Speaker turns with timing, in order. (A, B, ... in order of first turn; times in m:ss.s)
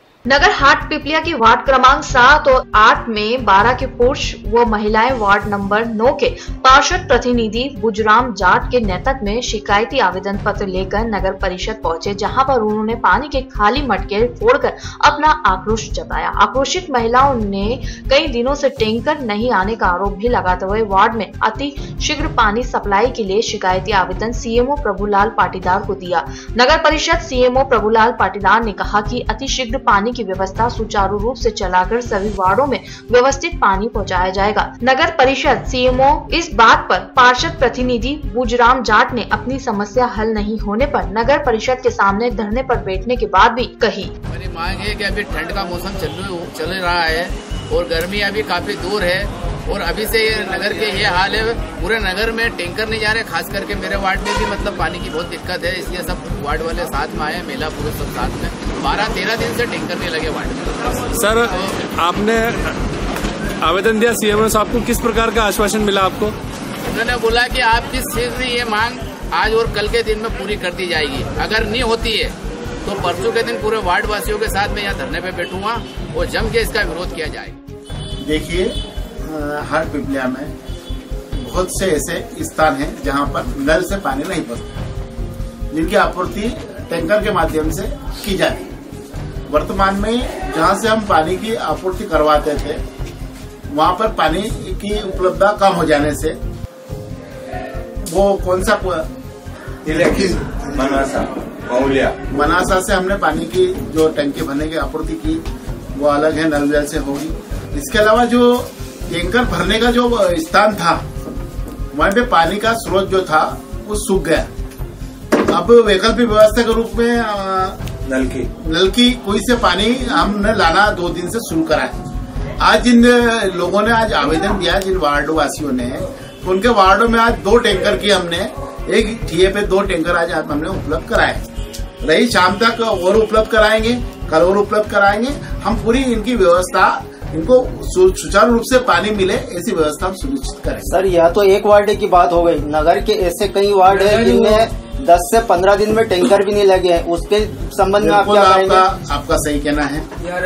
0:00.3-0:44.1 A
0:44.3-1:01.8 B
1:01.1-1:02.7 C
1:03.6-1:06.3 C
1:06.9-1:17.6 B
1:18.2-1:20.5 D
1:21.4-1:24.8 D
1:25.7-1:28.7 D
1:29.5-1:32.8 D
1:33.7-1:36.4 D
1:38.0-1:39.1 D
1:39.8-1:42.2 E
1:42.3-1:45.4 D
1:45.9-1:51.0 D
1:51.9-1:54.5 D
1:55.4-1:57.8 D
1:58.1-1:58.4 C
1:58.6-2:02.0 D
2:02.6-2:11.4 D
2:12.0-2:20.9 D
2:20.8-2:28.8 F
2:28.0-2:30.1 D